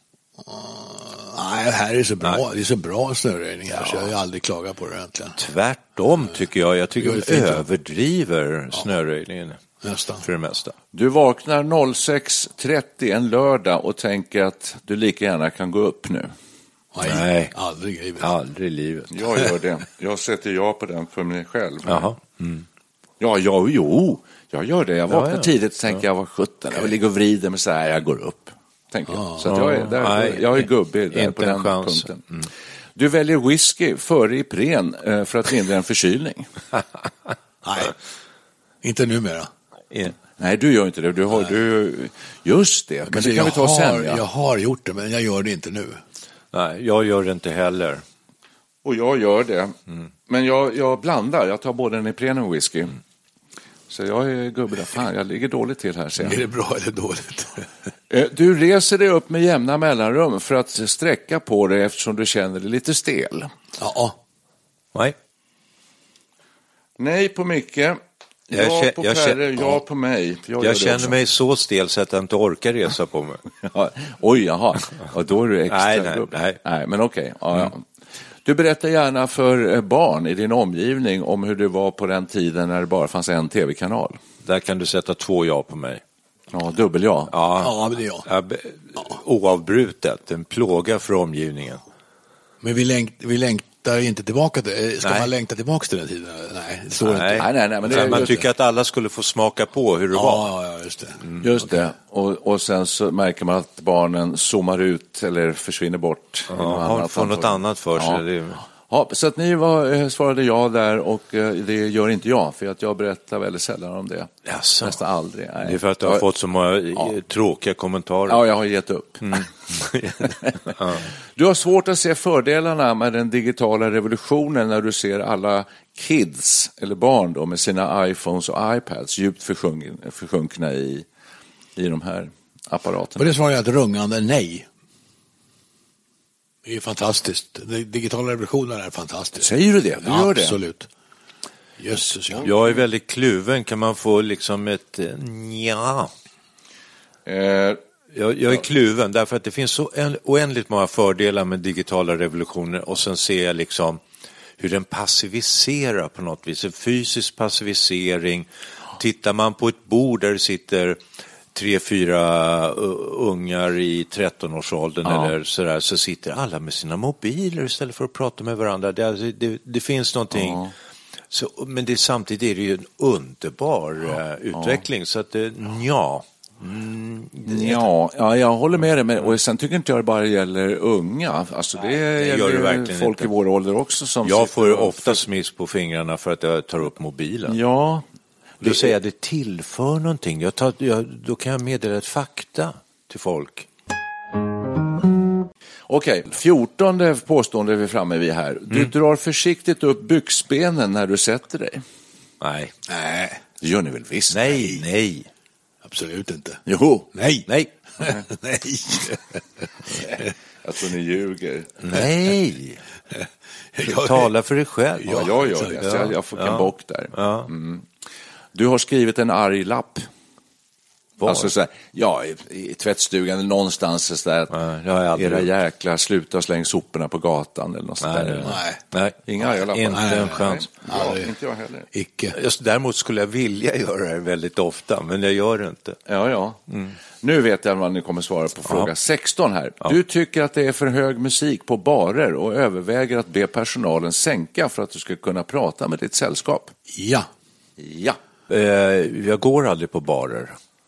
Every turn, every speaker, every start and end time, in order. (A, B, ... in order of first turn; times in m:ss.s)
0:00.4-0:05.4 A
0:05.4-0:09.6 B
0:07.0-0:07.6 A
0:09.8-0:10.3 A
0:10.2-0:10.7 B
0:10.9-0:16.3 C
0:16.9-0:18.3 A
0:17.0-0:17.5 B
0:18.2-0:19.1 B
0:19.1-0:22.1 C
0:21.9-0:22.7 B
0:23.2-0:32.2 C
0:25.1-0:26.0 B
0:29.1-0:29.4 A
0:29.4-0:32.5 B
0:33.0-0:36.5 C
0:37.6-0:38.0 A
0:38.8-0:39.5 A
0:39.9-0:40.2 B
0:40.4-0:44.2 C
0:43.1-0:46.0 A
0:46.5-0:48.0 B
0:48.8-0:49.8 C
0:50.3-0:53.0 C
0:53.9-0:56.4 C
0:56.2-0:57.7 A
0:58.1-1:03.5 C
1:03.8-1:04.2 A
1:07.0-1:11.2 C
1:08.5-1:09.8 B
1:10.6-1:13.4 B
1:13.6-1:17.9 C
1:15.7-1:16.6 B
1:18.4-1:24.2 C
1:24.4-1:26.0 B
1:26.5-1:27.3 C
1:27.3-1:31.8 B
1:27.6-1:28.3 A
1:32.6-1:38.3 A
1:35.0-1:35.3 B
1:37.0-1:40.5 B
1:37.4-1:38.4 C
1:40.1-1:41.2 A
1:41.4-1:48.2 C
1:46.5-1:48.6 B
1:48.9-1:56.3 C
1:54.5-1:55.0 B
1:55.6-1:58.4 B
1:58.3-1:59.4 C
1:59.2-2:01.0 B
2:00.3-2:00.7 C
2:01.4-2:11.1 C
2:11.8-2:13.3 C
2:13.2-2:14.7 A
2:16.6-2:20.9 A
2:19.4-2:20.6 C
2:21.8-2:22.5 A
2:22.4-2:26.1 B
2:27.3-2:27.8 C
2:28.1-2:34.0 B
2:34.6-2:41.0 B
2:41.5-2:50.7 B
2:45.0-2:45.3 C
2:50.3-2:50.7 C
2:51.3-2:57.9 B
2:54.5-2:54.8 C
2:57.5-3:05.2 C
3:02.0-3:03.3 B
3:04.2-3:07.6 B
3:07.5-3:08.0 C
3:08.6-3:13.7 B
3:08.6-3:08.9 C
3:15.9-3:21.8 C
3:22.4-3:22.7 B
3:22.9-3:23.4 A
3:23.6-3:24.4 C
3:24.3-3:25.3 B
3:24.6-3:24.8 A
3:25.8-3:27.5 A
3:26.7-3:27.1 C
3:28.0-3:29.4 A
3:30.0-3:31.8 C
3:31.8-3:32.8 B
3:33.1-3:34.3 A
3:33.8-3:37.5 B
3:35.0-3:35.8 A
3:35.1-3:37.9 C
3:38.5-3:40.1 C
3:41.2-3:41.5 B
3:41.2-3:44.5 C
3:44.5-3:45.5 B
3:45.1-3:48.6 C
3:48.0-3:50.7 B
3:48.4-3:48.8 A
3:49.3-3:51.9 C
3:49.9-3:51.3 A
3:51.9-3:52.4 A
3:52.3-3:56.0 B
3:56.1-3:56.6 C
3:57.2-4:06.7 C
4:06.9-4:07.3 A
4:07.8-4:08.2 C
4:08.5-4:10.6 B